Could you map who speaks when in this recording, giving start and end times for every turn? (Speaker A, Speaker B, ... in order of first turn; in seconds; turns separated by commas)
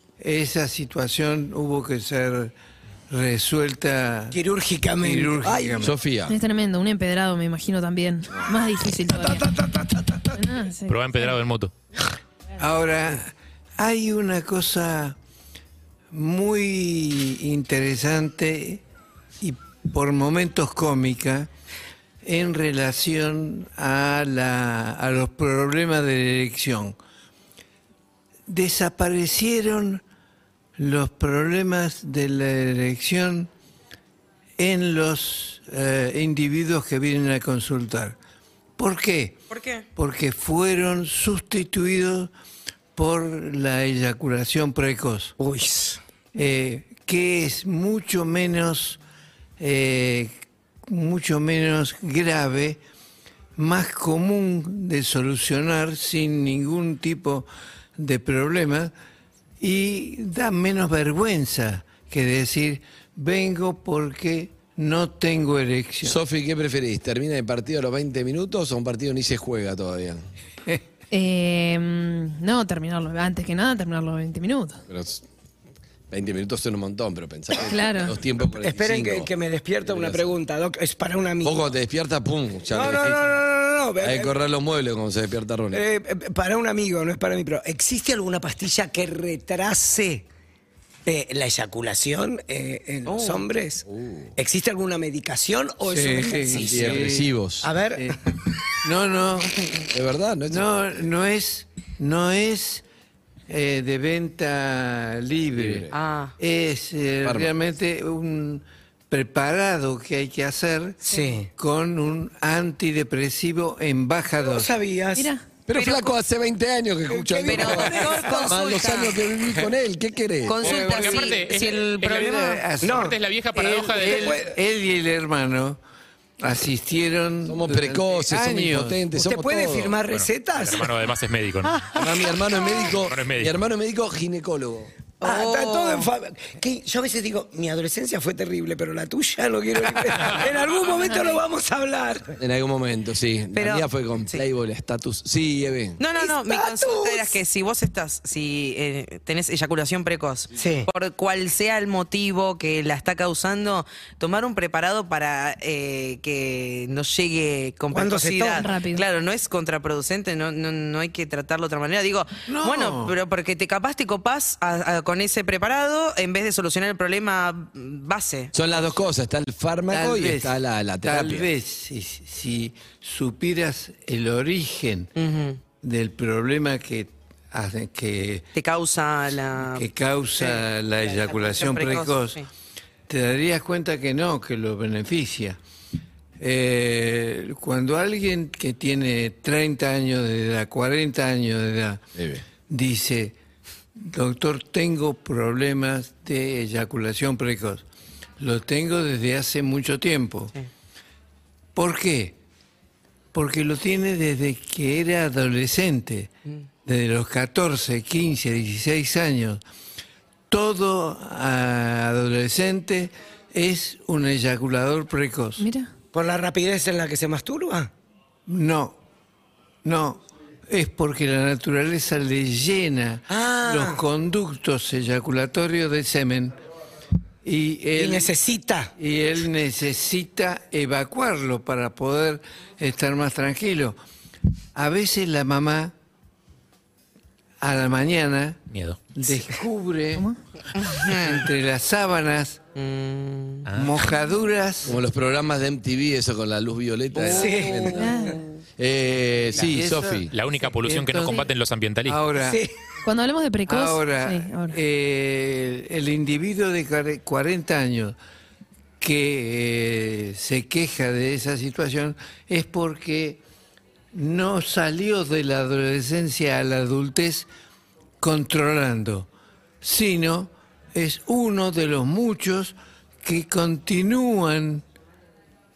Speaker A: 0.2-2.5, Speaker A: 3.1-4.4, Speaker B: 4.3-5.6, Speaker A: 5.0-6.0, Speaker C: 5.5-6.4, Speaker D: 6.3-9.5, Speaker B: 9.1-10.3, Speaker D: 10.3-11.3, Speaker E: 10.9-11.7, Speaker A: 12.6-15.2, Speaker A: 16.1-18.8, Speaker A: 19.4-21.5, Speaker A: 22.2-27.0, Speaker A: 28.5-30.0, Speaker A: 30.8-33.5, Speaker A: 34.6-38.2, Speaker A: 38.8-39.4, Speaker F: 39.5-39.9, Speaker A: 40.0-42.3, Speaker A: 43.0-45.3, Speaker B: 45.4-46.0, Speaker A: 46.3-49.0, Speaker A: 49.6-50.3, Speaker A: 50.9-52.8, Speaker A: 53.6-58.9, Speaker A: 59.6-66.2, Speaker C: 66.0-70.2, Speaker D: 71.1-74.8, Speaker C: 74.9-75.2, Speaker C: 76.1-80.3, Speaker D: 77.7-78.2, Speaker B: 78.5-81.7, Speaker C: 81.4-83.2, Speaker B: 82.7-84.4, Speaker C: 84.0-85.8, Speaker B: 85.7-90.2, Speaker B: 91.1-93.8, Speaker F: 93.1-93.5, Speaker C: 93.9-94.3, Speaker B: 94.4-97.0, Speaker A: 95.8-97.3, Speaker C: 96.5-97.7, Speaker B: 97.6-98.0, Speaker A: 98.8-99.6, Speaker C: 99.9-100.7, Speaker A: 100.5-102.8, Speaker A: 103.5-111.0, Speaker C: 105.5-105.9, Speaker F: 105.9-106.3, Speaker C: 107.2-107.5, Speaker B: 111.0-111.5, Speaker A: 111.5-114.7, Speaker B: 114.4-115.3, Speaker D: 115.2-115.4, Speaker C: 115.7-120.6, Speaker F: 115.7-116.2, Speaker B: 117.1-118.6, Speaker F: 117.5-119.7, Speaker F: 120.5-122.7, Speaker A: 120.6-121.3, Speaker E: 120.6-124.4, Speaker A: 122.0-125.8, Speaker B: 122.8-124.5, Speaker A: 126.4-129.0, Speaker C: 127.5-130.0, Speaker B: 129.1-131.0, Speaker E: 130.1-131.8, Speaker B: 131.6-132.1, Speaker C: 131.9-134.9, Speaker E: 133.1-133.5, Speaker F: 135.2-136.1, Speaker B: 135.2-142.4, Speaker C: 142.4-146.0, Speaker F: 143.5-144.5, Speaker F: 146.0-168.5, Speaker B: 146.2-147.4, Speaker B: 150.6-150.9, Speaker B: 157.9-158.7, Speaker D: 158.6-159.0, Speaker A: 162.5-163.2, Speaker C: 168.5-171.5, Speaker A: 169.9-175.1, Speaker F: 175.2-175.6, Speaker A: 175.8-178.5, Speaker F: 178.6-182.5, Speaker A: 179.6-182.4, Speaker A: 183.1-185.6, Speaker A: 186.4-192.0, Speaker C: 192.2-192.4, Speaker A: 192.7-193.4, Speaker A: 194.0-197.8, Speaker A: 198.4-200.5, Speaker A: 201.8-202.4, Speaker A: 203.3-206.3, Speaker A: 206.8-209.6, Speaker A: 210.5-215.7, Speaker D: 215.6-215.9, Speaker B: 216.1-217.9, Speaker A: 218.5-219.0, Speaker A: 219.8-226.6, Speaker B: 223.3-224.0, Speaker A: 227.4-228.3, Speaker B: 227.9-228.9, Speaker A: 229.0-234.0, Speaker A: 234.8-235.9, Speaker A: 237.6-238.6, Speaker E: 238.7-239.0, Speaker A: 239.2-240.3, Speaker F: 240.8-241.4, Speaker A: 241.1-242.6, Speaker F: 242.8-243.7, Speaker E: 243.7-243.9, Speaker A: 243.7-245.0, Speaker C: 244.9-248.2, Speaker A: 247.1-248.3, Speaker B: 247.3-248.1, Speaker D: 247.9-248.4, Speaker C: 248.8-250.3, Speaker A: 249.5-251.4, Speaker E: 250.3-252.2, Speaker A: 252.0-252.6, Speaker B: 252.4-252.7, Speaker D: 253.0-254.8, Speaker A: 253.7-258.2, Speaker A: 259.0-263.4, Speaker A: 264.1-267.5, Speaker A: 268.2-269.3, Speaker A: 269.8-274.9